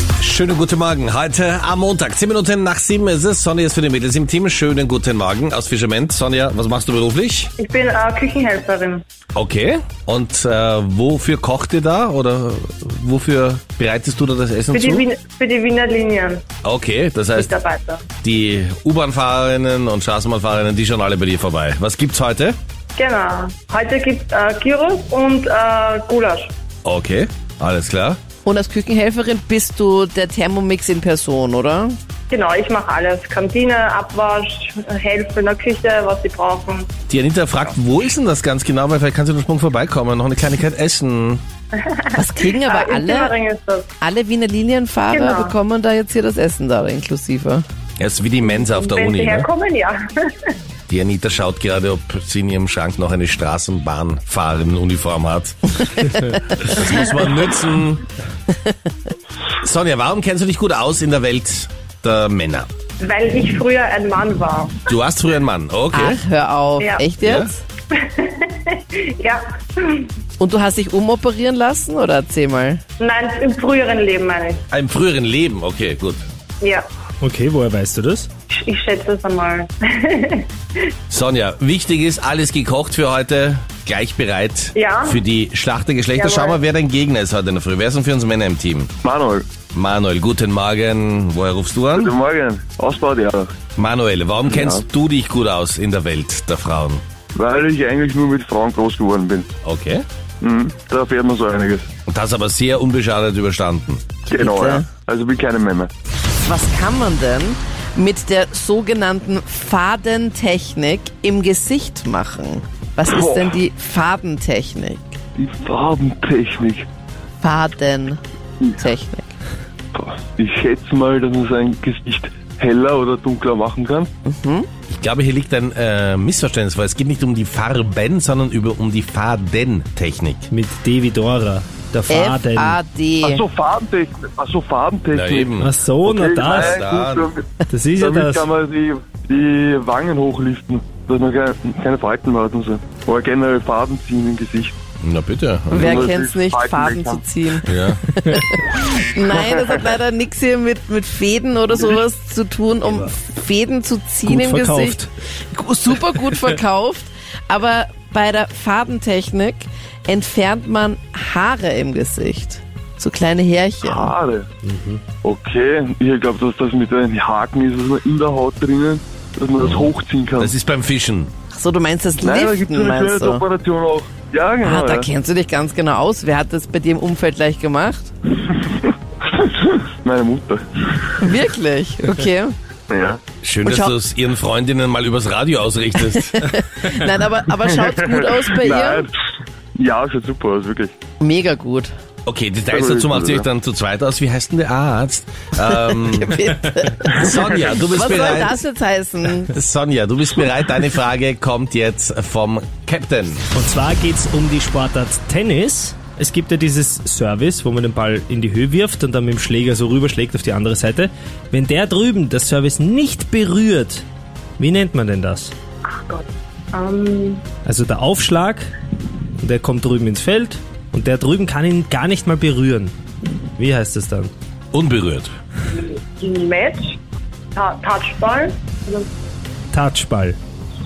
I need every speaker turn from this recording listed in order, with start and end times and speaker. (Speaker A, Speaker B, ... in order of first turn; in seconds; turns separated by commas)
Speaker A: 0.2-7.5, Speaker B: 7.6-9.0, Speaker A: 9.3-15.1, Speaker B: 14.7-16.4, Speaker A: 16.6-17.5, Speaker B: 17.4-18.0, Speaker A: 18.2-22.6, Speaker B: 23.0-26.5, Speaker A: 26.8-28.2, Speaker C: 28.4-32.0, Speaker B: 32.3-36.9, Speaker A: 37.1-41.4, Speaker B: 41.8-43.9, Speaker C: 42.2-43.4, Speaker C: 44.0-47.7, Speaker B: 45.1-45.6, Speaker A: 48.0-49.5, Speaker B: 48.4-50.5, Speaker A: 50.9-55.6, Speaker C: 56.0-56.8, Speaker A: 56.6-58.0, Speaker A: 59.6-62.7, Speaker B: 63.0-64.8, Speaker A: 64.9-66.2, Speaker C: 65.9-67.6, Speaker B: 66.8-67.1, Speaker A: 67.2-67.5, Speaker B: 68.0-70.1, Speaker C: 70.4-72.8, Speaker B: 73.0-74.6, Speaker A: 74.7-76.2, Speaker B: 76.6-76.9, Speaker D: 77.2-78.3, Speaker B: 78.5-80.5, Speaker A: 81.1-88.9, Speaker B: 84.8-85.2, Speaker B: 86.2-86.6, Speaker E: 89.0-89.6, Speaker A: 89.7-92.1, Speaker E: 92.0-93.6, Speaker A: 93.8-97.0, Speaker E: 94.5-94.8, Speaker E: 97.3-99.5, Speaker A: 99.6-100.0, Speaker E: 100.4-101.9, Speaker A: 102.1-104.2, Speaker C: 104.3-104.9, Speaker E: 104.3-105.9, Speaker C: 106.4-115.2, Speaker E: 113.0-113.6, Speaker E: 115.4-116.9, Speaker C: 117.4-118.2, Speaker C: 118.8-119.3, Speaker E: 119.9-124.1, Speaker C: 124.3-124.7, Speaker A: 124.9-130.5, Speaker D: 130.5-132.8, Speaker C: 132.1-133.4, Speaker E: 133.2-144.8, Speaker A: 135.1-135.7, Speaker D: 135.6-136.8, Speaker A: 136.6-137.3, Speaker D: 137.7-138.5, Speaker A: 145.0-145.8, Speaker E: 145.7-147.2, Speaker C: 145.7-155.0, Speaker A: 147.7-148.0, Speaker E: 149.5-149.9, Speaker D: 154.2-155.1, Speaker C: 155.5-164.2, Speaker E: 163.8-164.5, Speaker D: 164.6-165.0, Speaker E: 165.2-170.6, Speaker A: 169.6-171.3, Speaker C: 171.5-173.5, Speaker E: 172.2-175.1, Speaker C: 174.6-178.1, Speaker E: 178.6-181.1, Speaker C: 181.2-182.5, Speaker E: 182.9-183.2, Speaker A: 183.4-186.3, Speaker C: 183.6-184.0, Speaker C: 185.9-189.1, Speaker E: 187.7-189.1, Speaker E: 189.8-190.9, Speaker C: 191.2-191.9, Speaker A: 192.2-196.2, Speaker E: 192.7-193.5, Speaker C: 195.6-199.5, Speaker A: 197.2-198.6, Speaker A: 199.5-203.4, Speaker D: 203.5-214.1, Speaker D: 214.6-215.5, Speaker B: 215.9-217.4, Speaker D: 217.7-218.7, Speaker D: 219.4-222.9, Speaker D: 223.6-224.3, Speaker A: 224.7-225.3, Speaker B: 225.8-227.0, Speaker B: 227.6-229.1, Speaker D: 229.7-230.4